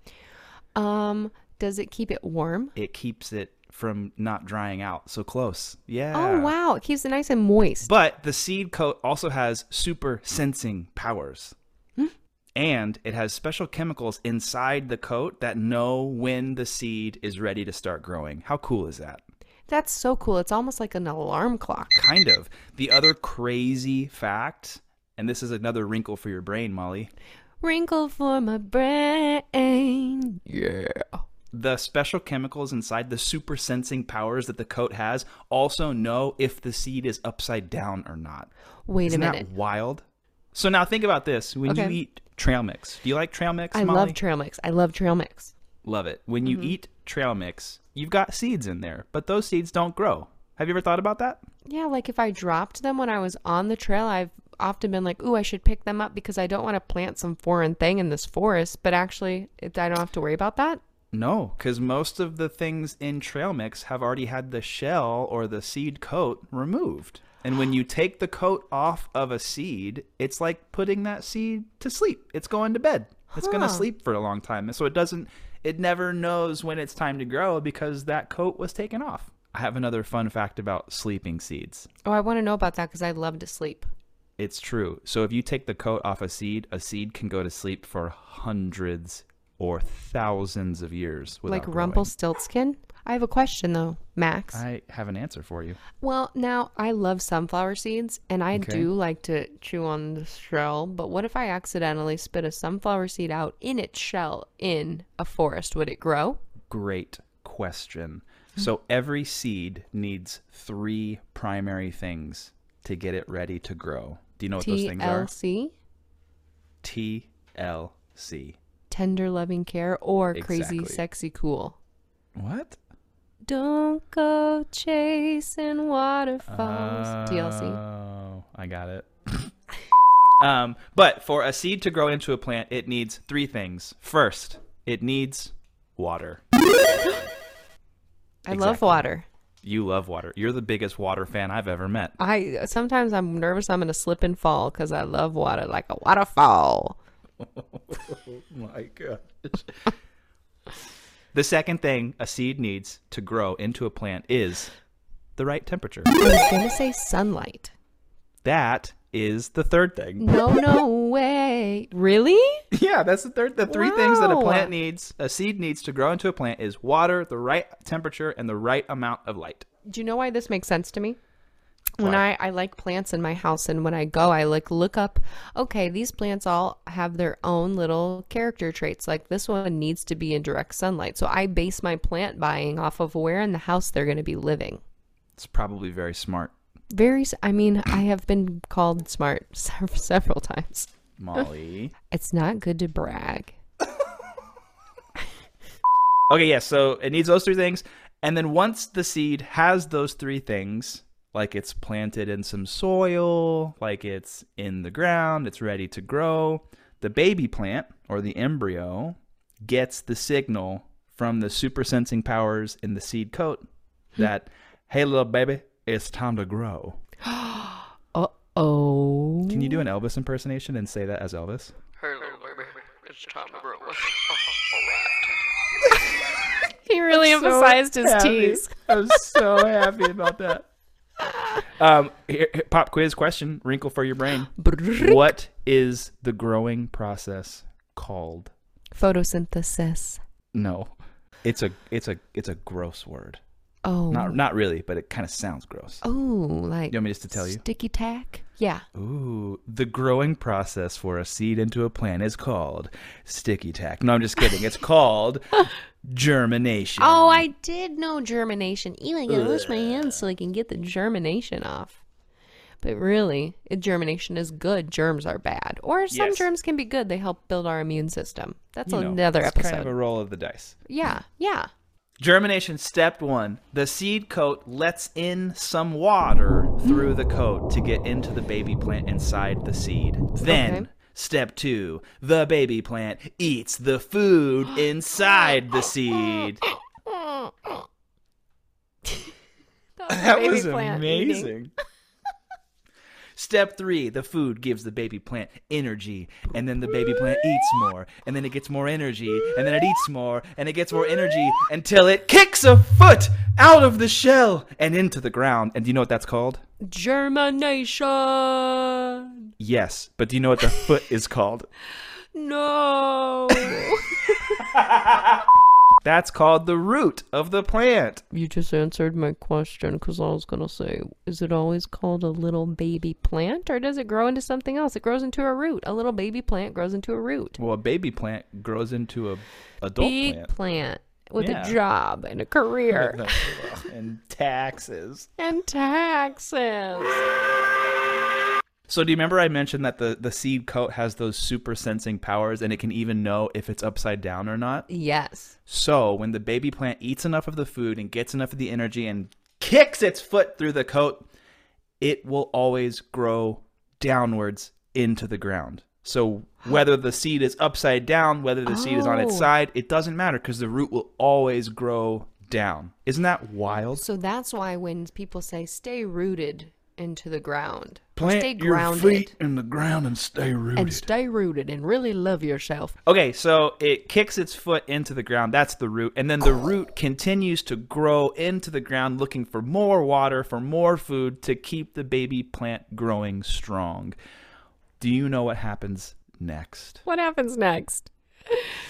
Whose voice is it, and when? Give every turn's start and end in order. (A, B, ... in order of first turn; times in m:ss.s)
0:00.7-0:02.7 A
0:02.8-0:06.5 B
0:06.1-0:07.9 A
0:07.8-0:11.5 B
0:12.5-0:19.2 B
0:19.7-0:22.0 A
0:22.0-0:27.1 B
0:27.6-0:31.2 A
0:31.5-0:38.5 B
0:38.8-0:39.5 A
0:39.0-0:44.2 B
0:41.6-0:42.0 A
0:43.7-0:45.5 A
0:45.8-0:51.4 B
0:46.4-0:46.7 A
0:51.6-1:00.8 A
1:01.1-1:21.9 B
1:13.3-1:13.8 A
1:22.0-1:23.9 A
1:24.4-1:32.1 B
1:31.5-1:34.6 A
1:34.5-1:35.8 B
1:36.0-1:46.4 A
1:38.5-1:38.9 B
1:46.7-1:55.3 B
1:54.6-1:55.7 A
1:56.8-1:58.6 B
1:58.9-2:01.8 A
2:00.3-2:01.0 B
2:02.3-2:02.8 B
2:03.4-2:07.8 A
2:06.5-2:09.5 B
2:10.4-2:16.4 B
2:18.5-2:19.2 A
2:18.5-2:19.1 B
2:19.6-2:22.2 B
2:22.2-2:27.0 A
2:27.4-2:29.7 B
2:31.3-2:34.7 B
2:35.4-2:36.1 B
2:36.2-2:37.7 A
2:38.4-2:40.3 B
2:40.2-2:42.6 A
2:42.7-2:49.6 B
2:43.7-2:44.7 A
2:49.8-2:51.2 A
2:52.0-3:04.8 A
3:05.4-3:06.5 B
3:06.9-3:10.9 A
3:11.2-3:11.9 B
3:12.1-3:13.6 A
3:16.3-3:33.6 B
3:34.2-3:37.0 B
3:37.2-3:39.8 A
3:39.5-3:41.7 B
3:42.0-3:43.9 A
3:46.8-3:48.8 A
3:47.1-3:50.6 B
3:51.8-3:58.5 B
3:54.6-3:55.3 A
3:58.9-4:00.2 A
4:00.5-4:03.4 B
4:03.8-4:04.4 A
4:04.1-4:06.0 B
4:06.0-4:08.8 A
4:06.9-4:07.6 B
4:08.9-4:17.5 B
4:17.0-4:22.0 A
4:19.3-4:20.0 B
4:22.8-4:29.9 A
4:26.1-4:26.5 B
4:28.9-4:30.8 B
4:30.8-4:31.7 A
4:32.2-4:46.6 B
4:40.4-4:40.9 A
4:47.1-4:47.8 A
4:50.0-4:51.5 A
4:50.1-4:51.7 B
4:53.4-5:06.6 B
5:06.8-5:09.5 A
5:09.6-5:11.7 B
5:12.3-5:14.6 A
5:16.0-5:18.2 B
5:18.3-5:27.6 A
5:27.6-5:30.5 B
5:30.0-5:33.6 A
5:31.4-5:31.8 B
5:32.9-5:35.3 B
5:35.4-5:37.2 A
5:38.9-5:44.9 B
5:44.9-5:45.5 A
5:45.7-5:51.3 B
5:52.0-6:04.0 B
5:58.6-5:59.5 A
6:04.0-6:09.3 A
6:08.2-6:11.1 B
6:10.8-6:12.9 A
6:13.0-6:24.2 B
6:25.0-6:27.0 B
6:27.0-6:28.7 A